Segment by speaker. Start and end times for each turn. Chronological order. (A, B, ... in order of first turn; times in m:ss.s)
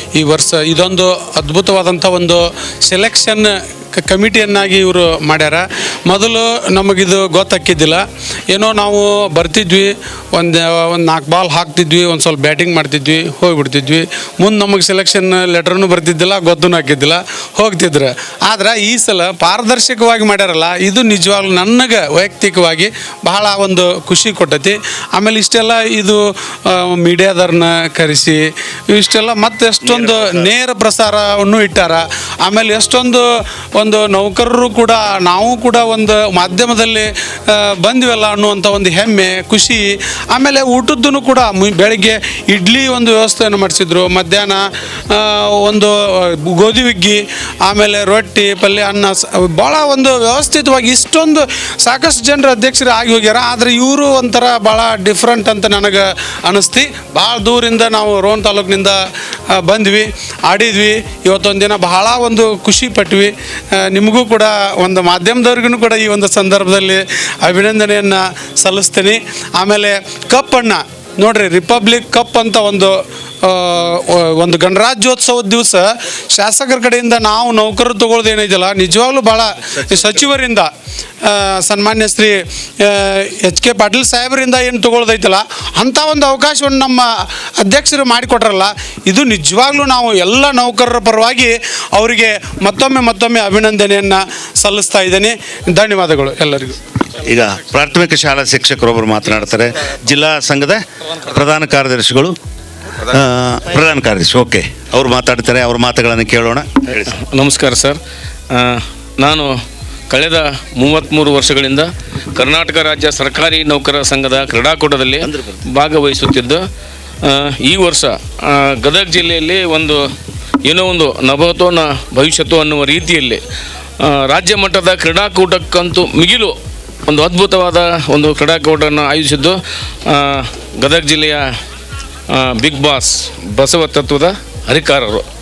0:00.1-0:26.2 A
0:26.8-0:28.4 A
0:28.9-0:33.2 A
0:29.8-0:30.5 B
0:33.8-0:37.1 A
0:37.8-0:45.9 A
0:46.5-0:59.0 A
0:59.6-1:03.3 A
1:03.9-1:20.7 A
1:21.2-1:27.0 A
1:27.6-1:36.8 A
1:37.3-1:40.8 B
1:41.3-1:42.3 B
1:43.1-1:47.1 B
1:47.1-1:48.0 C
1:50.1-1:51.8 C
1:52.4-1:56.6 C
1:55.2-1:55.6 B
1:57.6-1:58.1 C
1:58.8-2:00.0 C
2:00.7-2:03.4 C
2:04.3-2:06.5 C
2:07.1-2:09.5 C
2:10.8-2:11.4 C
2:12.6-2:15.2 C